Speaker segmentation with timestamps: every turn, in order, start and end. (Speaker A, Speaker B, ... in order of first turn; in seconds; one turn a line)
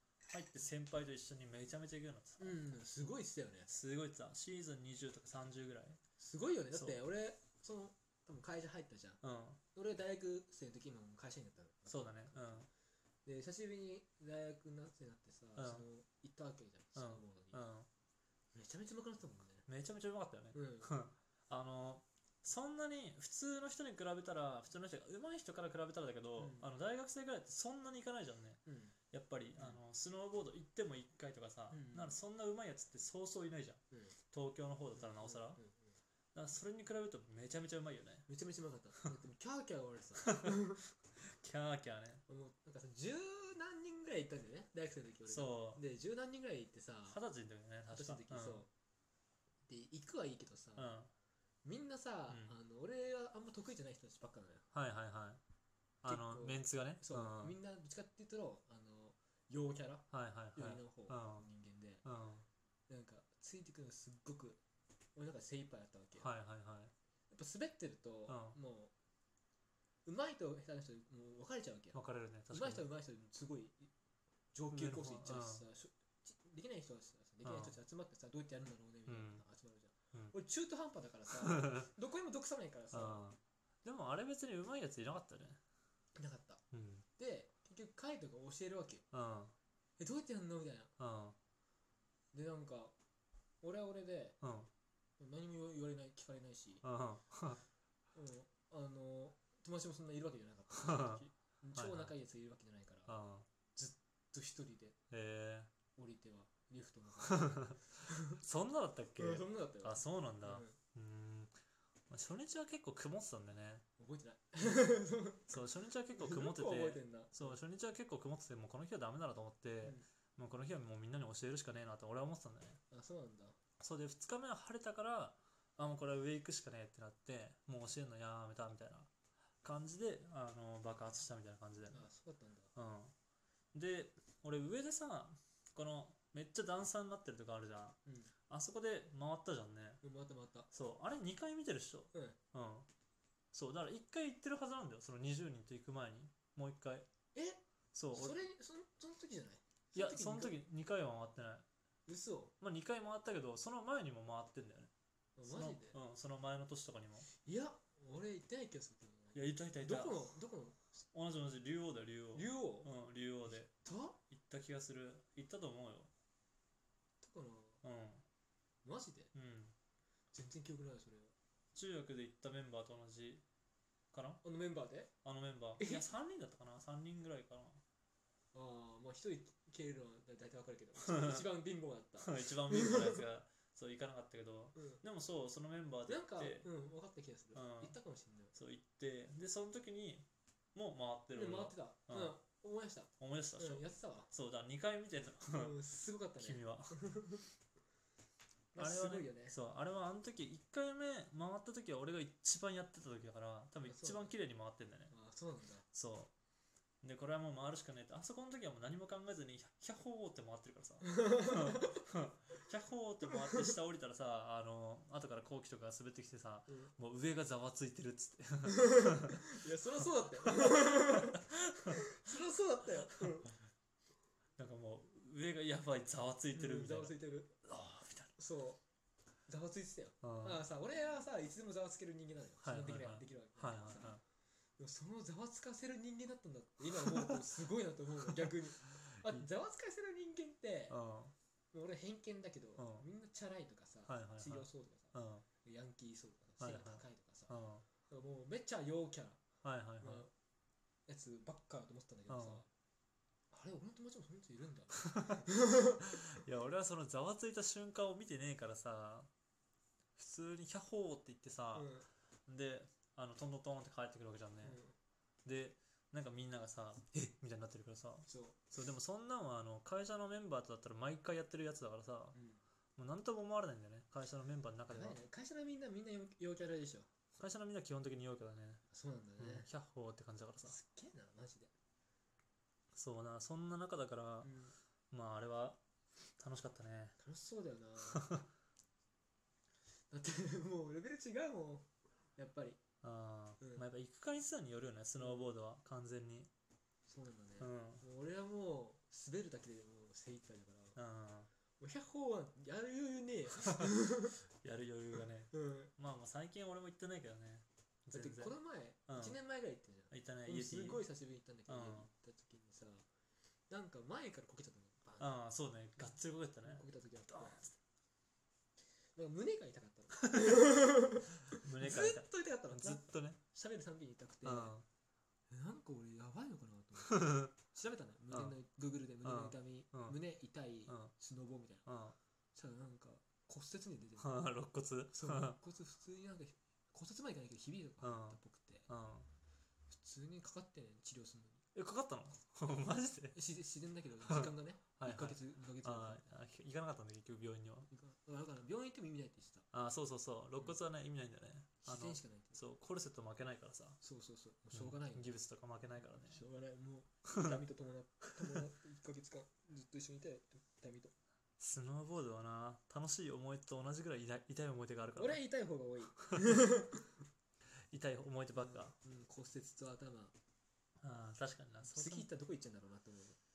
Speaker A: 0.3-2.7
Speaker B: 2.4-3.7
Speaker A: 3.7-6.0
Speaker B: 6.2-9.2
Speaker A: 6.7-7.0
Speaker A: 9.2-9.6
Speaker B: 9.8-12.6
Speaker A: 11.9-12.7
Speaker B: 13.3-17.7
Speaker A: 15.6-15.9
Speaker A: 17.0-17.9
Speaker B: 18.5-19.6
Speaker A: 19.7-28.6
Speaker B: 20.5-20.9
Speaker B: 26.4-26.7
Speaker B: 28.7-29.0
Speaker A: 29.1-35.6
Speaker B: 31.7-32.2
Speaker B: 35.0-35.9
Speaker A: 36.4-38.3
Speaker B: 38.3-40.8
Speaker A: 40.2-42.2
Speaker B: 42.3-47.2
Speaker A: 45.3-45.8
Speaker A: 47.1-48.6
Speaker B: 47.9-48.7
Speaker B: 49.7-50.9
Speaker A: 50.8-51.1
Speaker B: 51.6-54.6
Speaker A: 52.3-52.5
Speaker A: 54.7-55.4
Speaker A: 56.0-57.6
Speaker B: 56.1-62.0
Speaker A: 60.1-61.5
Speaker A: 62.0-62.5
Speaker B: 62.9-64.6
Speaker B: 65.2-66.3
Speaker A: 66.2-66.9
Speaker B: 67.3-68.9
Speaker A: 68.3-68.6
Speaker B: 70.0-73.9
Speaker A: 71.9-72.8
Speaker B: 74.5-83.3
Speaker A: 74.7-75.7
Speaker A: 77.4-77.8
Speaker A: 79.1-79.4
Speaker A: 81.4-81.9
Speaker A: 82.9-85.6
Speaker B: 86.2-86.6
Speaker A: 86.7-87.0
Speaker B: 87.2-89.0
Speaker A: 89.1-89.5
Speaker B: 90.0-90.9
Speaker A: 91.0-91.4
Speaker B: 92.3-92.9
Speaker B: 93.6-94.4
Speaker A: 94.4-94.7
Speaker B: 95.2-96.8
Speaker A: 96.8-97.6
Speaker B: 98.2-103.2
Speaker A: 100.7-101.2
Speaker A: 101.8-102.1
Speaker A: 103.1-103.5
Speaker B: 103.8-105.0
Speaker A: 105.1-105.7
Speaker B: 106.0-108.4
Speaker A: 107.3-111.5
Speaker B: 109.2-110.8
Speaker A: 112.1-113.8
Speaker B: 114.0-115.5
Speaker A: 115.5-122.8
Speaker B: 116.1-117.6
Speaker B: 122.9-123.6
Speaker A: 123.8-129.1
Speaker A: 129.6-132.1
Speaker B: 131.9-132.7
Speaker A: 132.8-133.1
Speaker A: 133.7-138.0
Speaker B: 138.1-138.3
Speaker A: 138.5-140.0
Speaker B: 140.0-140.7
Speaker A: 140.7-142.9
Speaker A: 143.5-147.1
Speaker B: 147.3-147.6
Speaker A: 147.9-148.4
Speaker B: 148.1-150.6
Speaker A: 149.9-151.7
Speaker B: 152.1-152.6
Speaker A: 152.6-154.9
Speaker B: 155.4-156.0
Speaker A: 155.4-157.3
Speaker B: 157.3-160.8
Speaker A: 159.3-160.3
Speaker A: 161.1-163.7
Speaker B: 162.3-162.9
Speaker B: 163.8-164.2
Speaker A: 164.3-166.1
Speaker B: 167.2-167.8
Speaker A: 167.8-168.2
Speaker B: 168.8-169.3
Speaker A: 169.3-169.7
Speaker B: 170.3-171.3
Speaker A: 171.7-173.4
Speaker A: 174.1-174.4
Speaker B: 174.4-175.1
Speaker A: 175.2-177.8
Speaker B: 175.8-176.1
Speaker B: 178.5-183.2
Speaker A: 181.0-181.5
Speaker A: 182.2-186.7
Speaker B: 184.8-185.0
Speaker B: 186.1-188.5
Speaker A: 187.6-187.9
Speaker A: 188.5-192.4
Speaker B: 191.3-194.3
Speaker A: 193.2-195.8
Speaker B: 195.5-197.4
Speaker A: 196.4-197.0
Speaker B: 198.7-199.6
Speaker A: 198.8-205.1
Speaker B: 203.8-204.3
Speaker B: 205.1-205.8
Speaker A: 205.9-206.3
Speaker A: 207.0-222.1
Speaker B: 211.1-212.0
Speaker B: 216.7-216.9
Speaker B: 218.7-223.6
Speaker A: 224.6-228.3
Speaker B: 226.5-227.6
Speaker B: 228.4-228.8
Speaker B: 229.5-234.2
Speaker A: 230.2-230.6
Speaker A: 232.6-234.2
Speaker B: 234.8-241.0
Speaker A: 237.0-237.5
Speaker A: 238.2-239.5
Speaker A: 240.9-241.3
Speaker B: 241.7-247.5
Speaker A: 242.8-243.1
Speaker A: 244.1-245.5
Speaker A: 246.6-247.8
Speaker B: 248.1-249.4
Speaker A: 249.6-250.2
Speaker B: 250.0-250.3
Speaker B: 251.1-252.7
Speaker A: 252.3-252.6
Speaker B: 253.5-256.2
Speaker A: 255.0-255.4
Speaker A: 256.0-259.3
Speaker A: 260.2-262.0
Speaker B: 261.7-262.1
Speaker A: 262.5-264.8
Speaker B: 264.6-264.9
Speaker A: 265.4-272.4
Speaker B: 268.3-268.6
Speaker B: 272.3-272.6
Speaker A: 273.0-275.2
Speaker B: 274.9-277.1
Speaker A: 277.4-278.8
Speaker B: 278.9-279.7
Speaker A: 279.4-280.8
Speaker B: 280.6-281.7
Speaker A: 282.9-284.5
Speaker B: 284.4-284.8
Speaker A: 285.1-285.8
Speaker A: 286.4-287.2
Speaker B: 287.2-288.3
Speaker A: 288.1-288.5
Speaker B: 290.1-292.8
Speaker A: 293.0-296.5
Speaker B: 293.6-293.9
Speaker B: 295.2-295.5
Speaker B: 297.1-301.0
Speaker A: 297.6-298.0
Speaker A: 301.0-301.5
Speaker B: 301.8-304.4
Speaker A: 304.6-309.4
Speaker B: 305.5-305.9
Speaker B: 308.1-313.1
Speaker A: 310.1-311.1
Speaker A: 311.7-312.1
Speaker B: 313.7-315.4
Speaker A: 315.2-317.7
Speaker B: 316.6-317.7
Speaker B: 319.2-324.8
Speaker A: 320.2-320.7
Speaker A: 321.5-323.4
Speaker A: 324.4-324.9
Speaker B: 325.5-331.9
Speaker A: 327.0-327.5
Speaker A: 329.2-330.2
Speaker A: 330.9-331.1
Speaker A: 331.9-332.2
Speaker B: 332.6-334.4
Speaker A: 334.2-335.6
Speaker B: 335.1-338.9
Speaker A: 338.0-339.3
Speaker B: 339.9-341.6
Speaker A: 341.8-343.4
Speaker B: 343.3-346.4
Speaker A: 344.2-347.9
Speaker B: 347.9-349.7
Speaker A: 349.7-354.0
Speaker B: 351.8-352.6
Speaker B: 354.0-355.4
Speaker A: 354.7-356.4
Speaker B: 356.0-361.1
Speaker A: 357.3-357.6
Speaker A: 361.6-365.4
Speaker B: 365.2-367.2
Speaker A: 367.9-368.9
Speaker B: 368.6-370.4
Speaker A: 371.0-372.3
Speaker B: 371.8-373.4